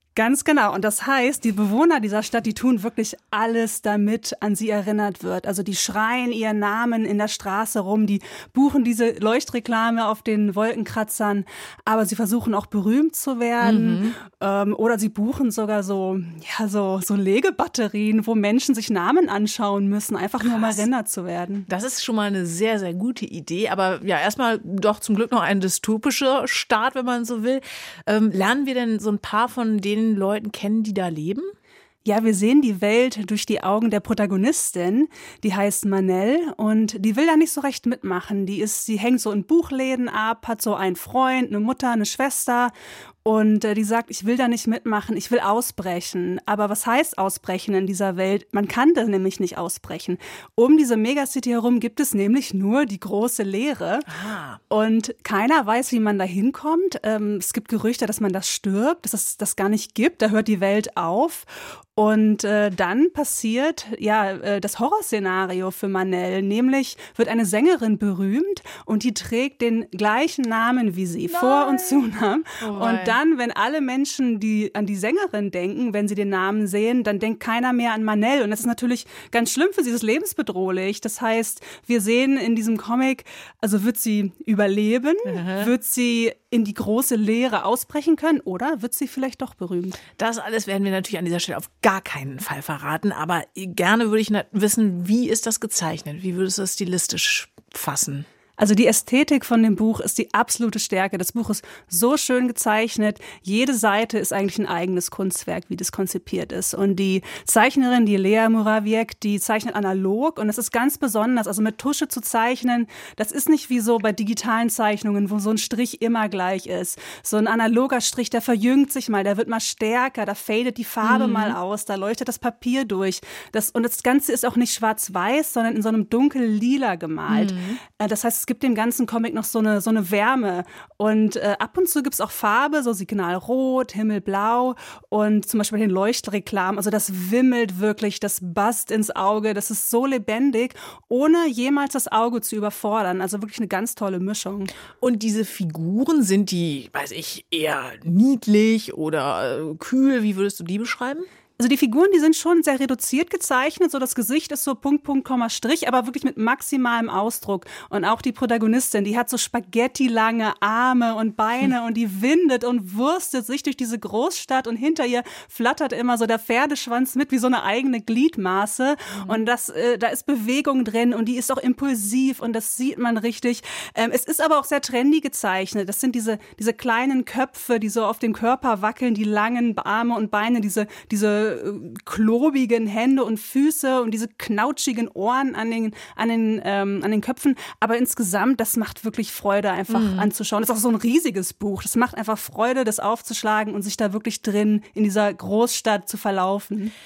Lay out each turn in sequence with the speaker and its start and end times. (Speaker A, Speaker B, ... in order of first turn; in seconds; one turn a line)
Speaker A: 0.1-21.7
Speaker B: 13.6-14.2
Speaker B: 20.4-20.8
Speaker B: 21.7-31.5
Speaker A: 32.0-42.7
Speaker A: 43.2-54.1
Speaker B: 54.1-54.6
Speaker A: 54.7-90.0
Speaker B: 71.3-72.1
Speaker B: 72.6-73.2
Speaker B: 85.3-85.7
Speaker B: 90.2-98.3
Speaker A: 98.6-144.7
Speaker B: 121.0-121.6
Speaker B: 127.3-127.8
Speaker B: 145.0-151.3
Speaker A: 151.6-196.9
Speaker B: 169.1-169.4
Speaker B: 189.9-190.3